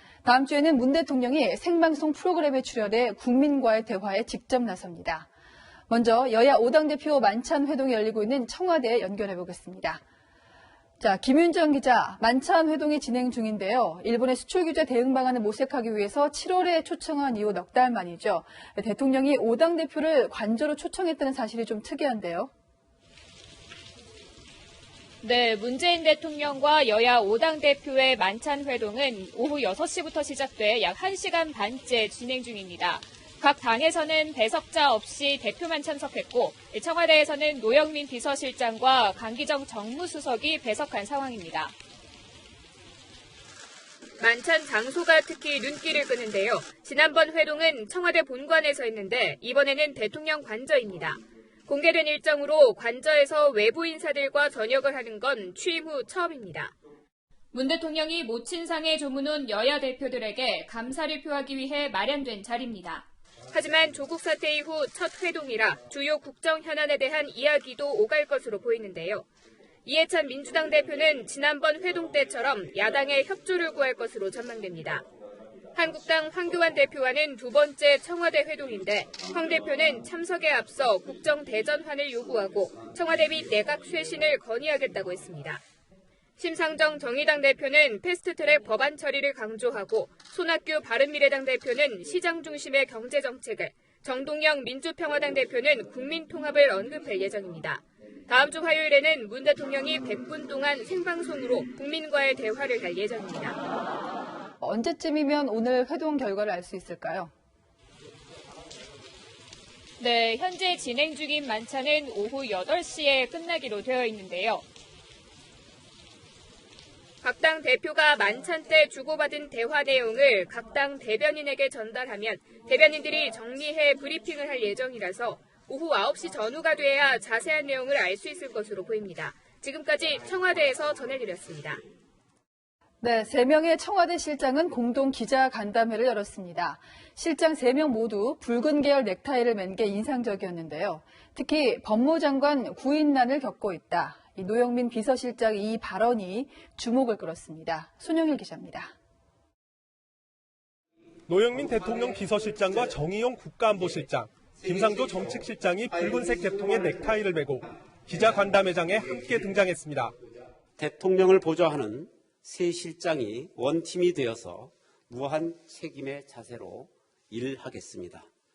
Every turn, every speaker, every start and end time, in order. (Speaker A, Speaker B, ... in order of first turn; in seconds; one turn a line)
Speaker A: 0.2-5.3
Speaker A: 5.9-10.0
Speaker A: 11.0-22.5
Speaker B: 25.2-41.7
Speaker B: 44.2-56.7
Speaker B: 57.5-69.2
Speaker B: 69.8-75.0
Speaker B: 75.7-85.6
Speaker B: 86.4-103.6
Speaker A: 104.6-107.3
Speaker B: 110.0-114.6
Speaker B: 117.2-131.8
Speaker A: 133.0-148.9
Speaker C: 151.3-160.2
Speaker D: 160.8-168.3